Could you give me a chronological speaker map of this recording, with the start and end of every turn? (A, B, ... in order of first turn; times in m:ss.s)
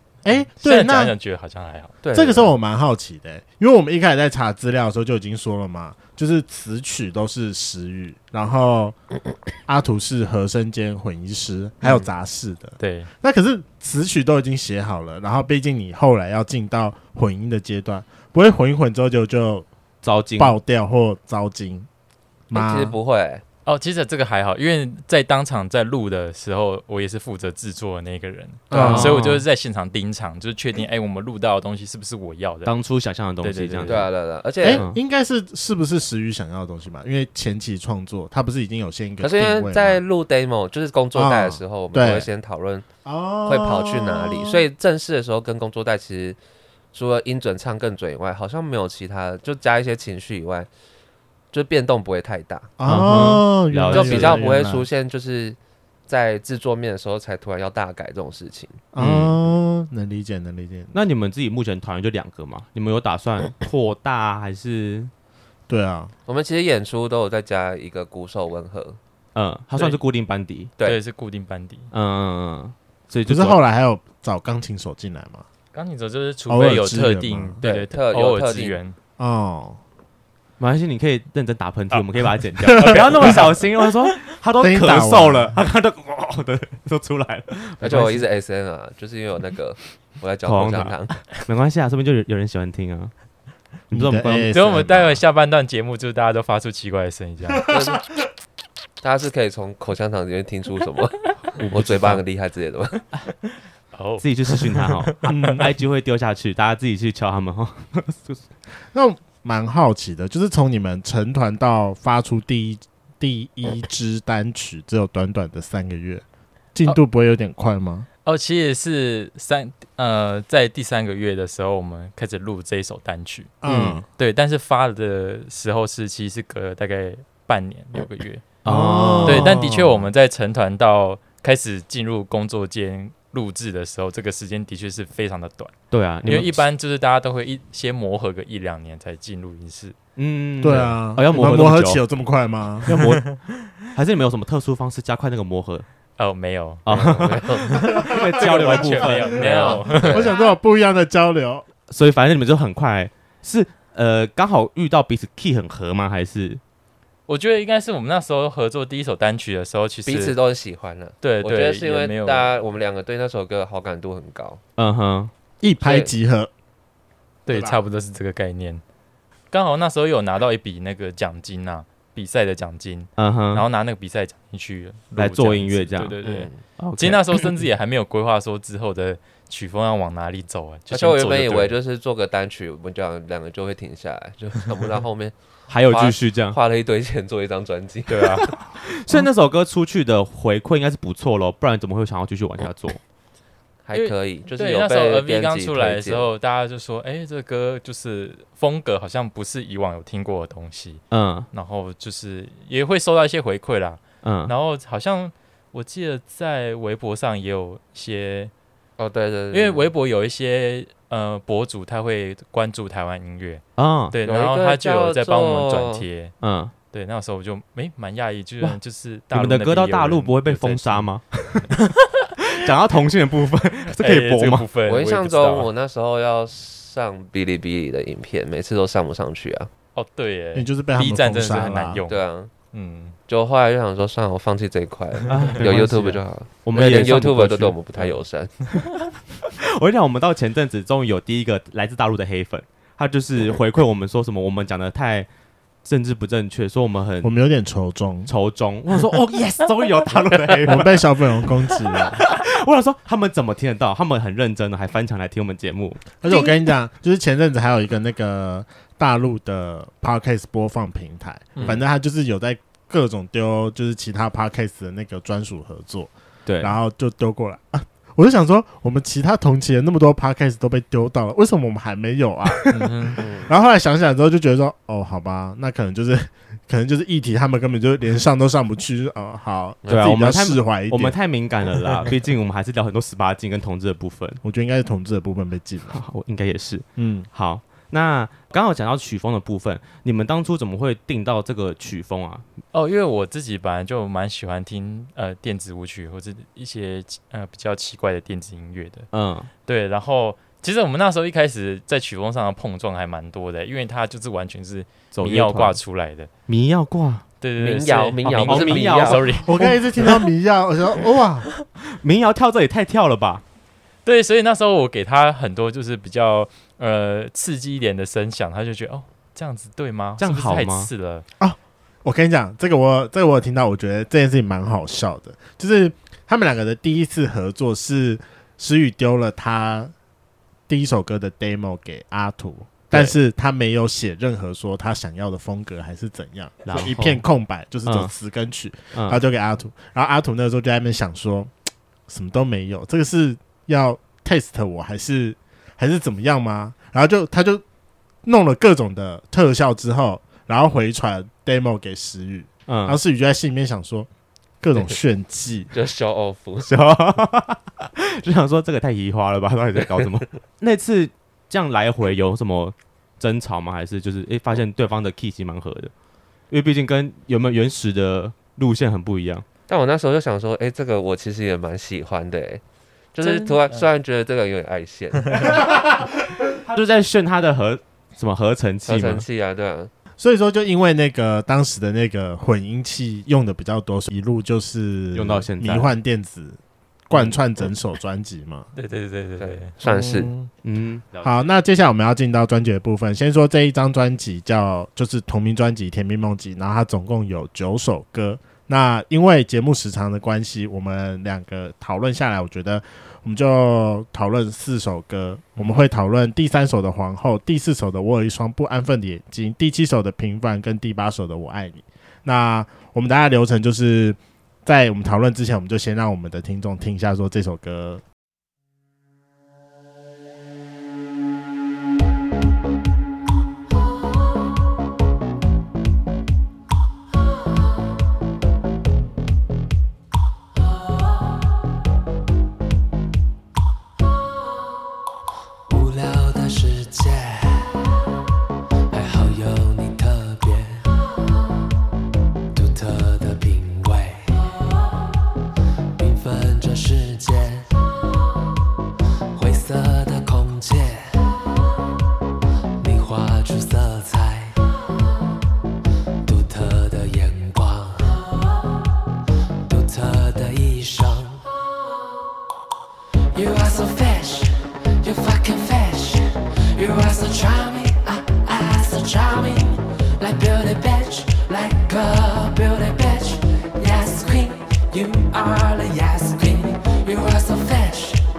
0:00.2-0:01.1 A
0:00.6-0:02.0 B
0:02.0-0:02.5 C
0:02.1-0:09.0 A
0:09.7-0:19.7 A
0:11.8-0:12.1 C
0:12.8-0:13.1 B
0:20.0-0:20.6 D
0:20.4-0:21.9 A
0:22.5-0:23.0 A
0:22.5-0:23.4 C
0:23.6-0:32.7 B
0:28.7-0:29.2 A
0:28.7-0:29.4 D
0:32.7-0:34.1 D
0:33.4-0:34.1 B
0:33.9-0:34.8 C
0:34.6-0:40.0 A
0:34.6-0:35.0 D
0:39.2-0:42.9 C
0:41.2-0:42.3 A
0:43.0-0:44.6 A
0:43.5-0:46.4 C
0:46.9-0:50.7 C
0:51.5-0:52.7 C
0:52.8-0:54.9 A
0:52.8-0:54.4 D
0:53.9-0:58.8 C
0:58.9-1:00.9 A
0:59.0-0:59.4 D
1:00.9-1:05.1 D
1:05.7-1:06.1 A
1:06.3-1:09.0 C
1:09.4-1:10.7 D
1:10.8-1:11.9 B
1:11.9-1:13.6 D
1:13.3-1:15.4 A
1:15.7-1:19.0 B
1:16.5-1:17.6 A
1:17.6-1:18.8 C
1:19.2-1:19.8 A
1:20.6-1:28.2 D
1:22.6-1:23.9 B
1:22.8-1:23.4 A
1:24.6-1:25.6 A
1:27.8-1:31.1 C
1:30.4-1:33.1 D
1:33.9-1:34.5 D
1:33.9-1:35.2 A
1:34.5-1:37.7 B
1:37.7-1:38.0 C
1:39.0-1:43.0 C
1:41.6-1:42.2 D
1:43.9-1:44.2 B
1:44.2-1:48.4 D
1:45.0-1:45.5 B
1:45.3-1:45.6 A
1:48.9-1:56.2 A
1:56.8-1:58.1 A
1:58.2-2:03.6 B
2:03.6-2:04.0 A
2:03.7-2:04.0 D
2:04.2-2:08.5 B
2:08.6-2:09.6 D
2:08.6-2:10.0 A
2:09.2-2:15.7 B
2:15.9-2:16.6 D
2:16.2-2:20.0 B
2:20.2-2:22.0 D
2:20.6-2:23.0 A
2:22.8-2:25.8 D
2:26.2-2:26.9 B
2:26.9-2:29.8 D
2:26.9-2:28.0 C
2:27.5-2:30.3 B
2:28.1-2:31.6 A
2:29.4-2:30.4 C
2:31.9-2:36.6 D
2:37.3-2:40.4 B
2:40.0-2:44.6 C
2:41.2-2:42.5 B
2:44.8-2:45.3 D
2:45.6-2:46.5 A
2:45.8-2:46.1 C
2:47.5-2:48.8 B
2:47.5-2:47.8 A
2:49.5-3:01.8 B
2:53.2-2:53.6 D
2:55.2-2:56.2 D
2:56.2-2:56.6 C
2:56.8-2:57.6 D
3:00.9-3:08.5 C
3:05.7-3:06.6 D
3:08.1-3:08.5 B
3:08.7-3:13.0 D
3:13.9-3:16.3 C
3:13.9-3:28.5 B
3:21.1-3:21.5 D
3:24.2-3:24.5 D
3:29.0-3:29.9 C
3:29.5-3:36.3 B
3:33.8-3:34.2 D
3:34.2-3:36.0 C
3:36.4-3:36.7 D
3:36.9-3:41.1 B
3:39.3-3:41.8 D
3:42.5-3:44.7 D
3:44.0-3:45.7 B
3:44.9-3:49.7 C
3:50.0-3:53.2 B
3:50.6-3:52.0 A
3:52.1-3:52.5 C
3:53.3-3:58.5 C
3:55.3-3:58.2 D
3:59.8-4:05.3 D
4:05.8-4:07.3 D
4:07.2-4:08.3 A
4:08.3-4:16.2 D
4:10.6-4:12.2 A
4:16.2-4:41.2 A
4:26.5-4:26.8 D
4:32.7-4:33.2 B
4:33.2-4:33.5 C
4:39.8-4:40.1 C
4:39.9-4:44.4 D
4:44.4-4:46.0 A
4:45.9-4:52.4 D
4:47.0-4:47.3 A
4:52.7-4:59.1 B
4:59.1-4:59.5 D
4:59.7-5:06.3 B
5:05.1-5:05.8 D
5:06.5-5:07.2 D
5:07.4-5:10.1 B
5:07.6-5:09.3 C
5:08.2-5:09.7 D
5:09.4-5:11.5 A
5:11.9-5:13.4 D
5:14.0-5:21.2 B
5:20.2-5:20.9 D
5:21.4-5:29.9 A
5:30.7-5:41.5 A
5:36.7-5:37.2 D
5:37.9-5:38.1 D
5:38.9-5:39.2 D
5:42.1-5:47.6 A
5:48.2-5:54.1 A
5:52.7-5:53.0 D
5:54.6-5:55.7 A
5:55.7-5:56.7 C
5:56.7-6:05.9 D
6:06.5-6:09.4 D
6:09.7-6:12.6 C
6:13.1-6:15.7 C
6:13.2-6:13.8 B
6:16.0-6:19.2 D
6:18.8-6:19.9 C
6:20.2-6:28.7 A
6:25.1-6:25.9 D
6:28.8-6:29.7 B
6:29.4-6:30.3 C
6:29.8-6:30.5 A
6:30.6-6:31.5 D
6:31.2-6:58.0 A
7:15.7-7:17.8 E
7:18.9-7:20.9 E
7:22.5-7:24.6 E
7:26.0-7:27.7 E
7:29.3-7:31.1 E
7:32.8-7:34.6 E
7:36.2-7:38.3 E
7:39.6-7:41.4 E
7:43.3-7:58.2 E